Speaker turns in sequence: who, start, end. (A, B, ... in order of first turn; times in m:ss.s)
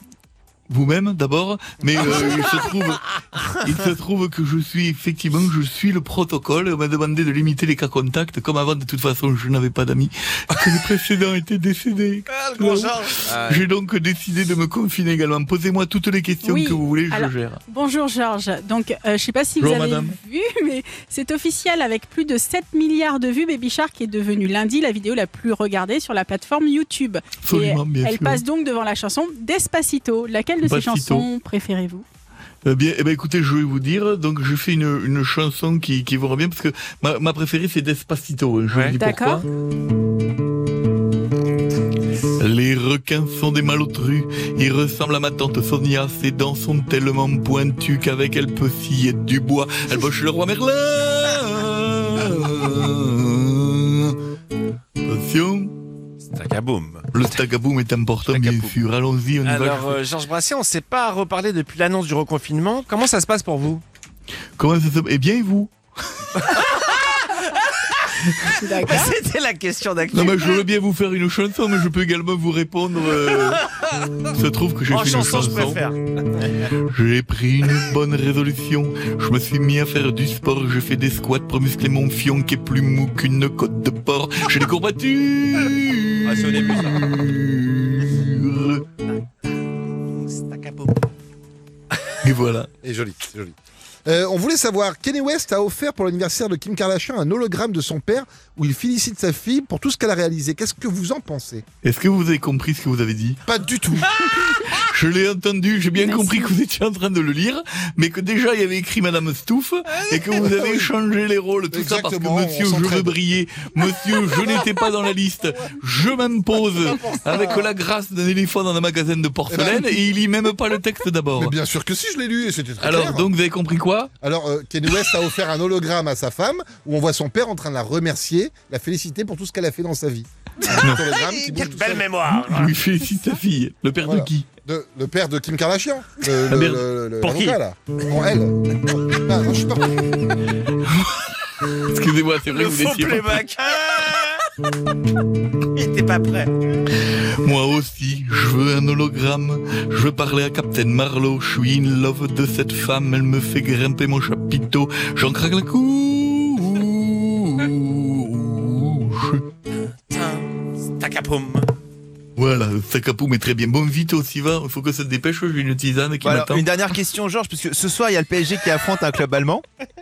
0:00.7-0:17.6 A
0:12.3-0:13.0 B
0:13.2-0:13.6 C
0:16.4-0:32.0 D
0:19.6-0:20.2 A
0:27.4-0:28.4 A
0:30.6-0:31.3 A
0:32.6-0:39.4 A
0:38.7-0:39.0 B
0:39.0-0:39.4 D
0:42.4-0:54.2 A
0:55.0-0:55.7 A
0:56.3-0:57.0 B
0:57.1-1:00.0 A
0:58.3-0:58.7 C
0:58.3-0:58.6 B
0:59.4-1:03.8 B
1:04.6-1:05.7 A
1:06.7-1:07.2 B
1:08.4-1:09.1 D
1:08.8-1:10.6 B
1:10.1-1:13.7 A
1:14.2-1:15.8 A
1:14.9-1:16.0 B
1:16.9-1:28.8 A
1:26.3-1:27.1 C
1:26.3-1:27.0 B
1:30.1-1:30.9 B
1:32.2-1:32.7 A
1:32.8-1:33.5 E
1:34.0-1:41.6 E
1:41.8-1:43.4 A
1:43.4-1:44.1 E
1:44.2-2:01.6 A
1:46.0-1:46.6 D
1:51.7-1:53.2 E
1:59.5-2:00.0 E
2:01.4-2:03.3 E
2:02.8-2:04.1 A
2:04.2-2:12.1 E
2:10.7-2:11.1 A
2:11.2-2:12.0 C
2:11.4-2:12.5 B
2:12.2-2:14.4 A
2:14.0-2:20.1 E
2:16.4-2:17.6 A
2:20.9-2:23.5 A
2:22.5-2:24.0 B
2:25.8-2:26.5 B
2:27.1-2:39.4 A
2:41.0-2:41.7 B
2:42.4-2:46.8 A
2:46.2-2:49.6 C